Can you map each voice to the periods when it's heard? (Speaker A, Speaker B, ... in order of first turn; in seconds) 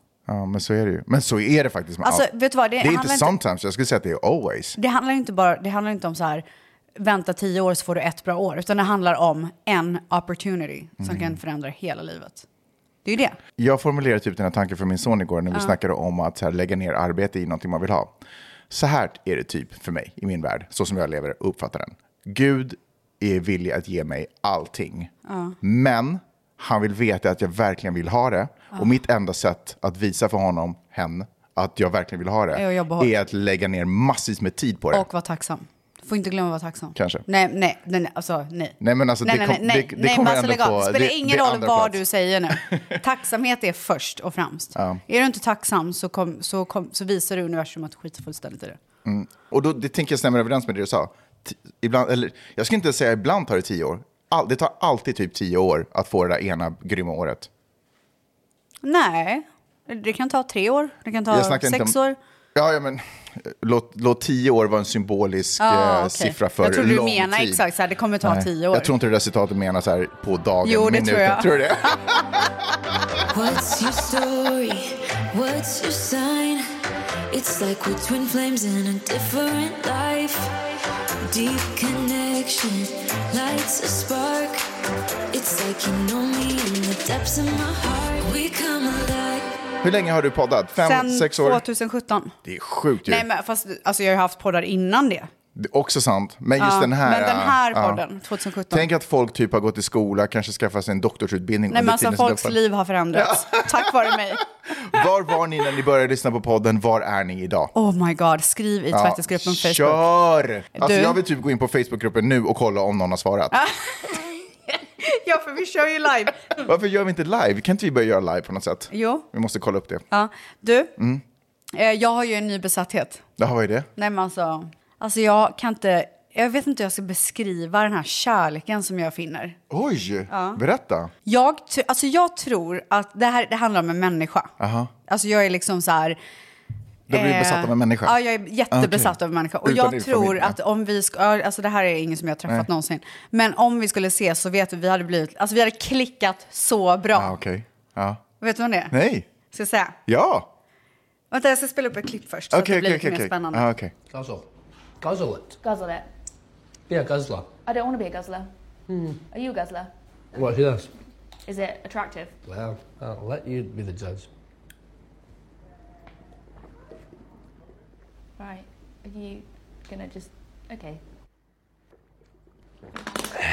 Speaker A: 0.3-4.8, 11.0-11.4, 13.6-18.1, 18.7-35.1, 36.9-37.2, 38.8-42.0, 44.8-45.0, 49.0-57.5, 61.3-62.0, 62.5-67.6, 68.2-72.5, 89.8-91.6, 92.4-93.2, 95.5-98.0, 98.7-102.6, 103.1-107.7, 108.9-113.6, 116.6-120.0, 121.0-121.2, 123.4-123.9, 129.7-131.1, 134.6-134.9, 137.1-138.2, 138.7-140.6, 147.1-148.2, 148.9-149.3, 150.1-150.5, 152.5-153.9
Speaker B: 2.0-3.3, 4.8-6.4, 7.0-12.4, 13.0-13.4, 25.2-25.6, 32.5-33.1, 34.9-48.8, 58.8-62.2, 65.6-68.9, 70.6-72.2, 90.8-92.3, 93.0-95.3, 96.6-98.9, 101.7-104.5, 107.7-110.0, 110.7-111.2, 113.5-116.5, 118.9-119.2, 120.1-120.9, 121.7-123.2, 124.0-129.6, 130.3-130.6, 131.2-134.5, 135.1-136.2, 137.1-147.3, 148.4-148.9, 149.5-149.9, 151.3-153.6
Speaker C: 73.3-76.6, 77.3-80.5, 81.3-84.6, 85.3-89.6
Speaker D: 154.1-154.5, 155.0-155.6, 156.9-157.5, 158.9-159.2, 160.3-160.9, 162.5-164.3
Speaker E: 155.6-156.1, 157.7-158.5, 159.3-159.9, 161.4-162.3, 168.4-171.0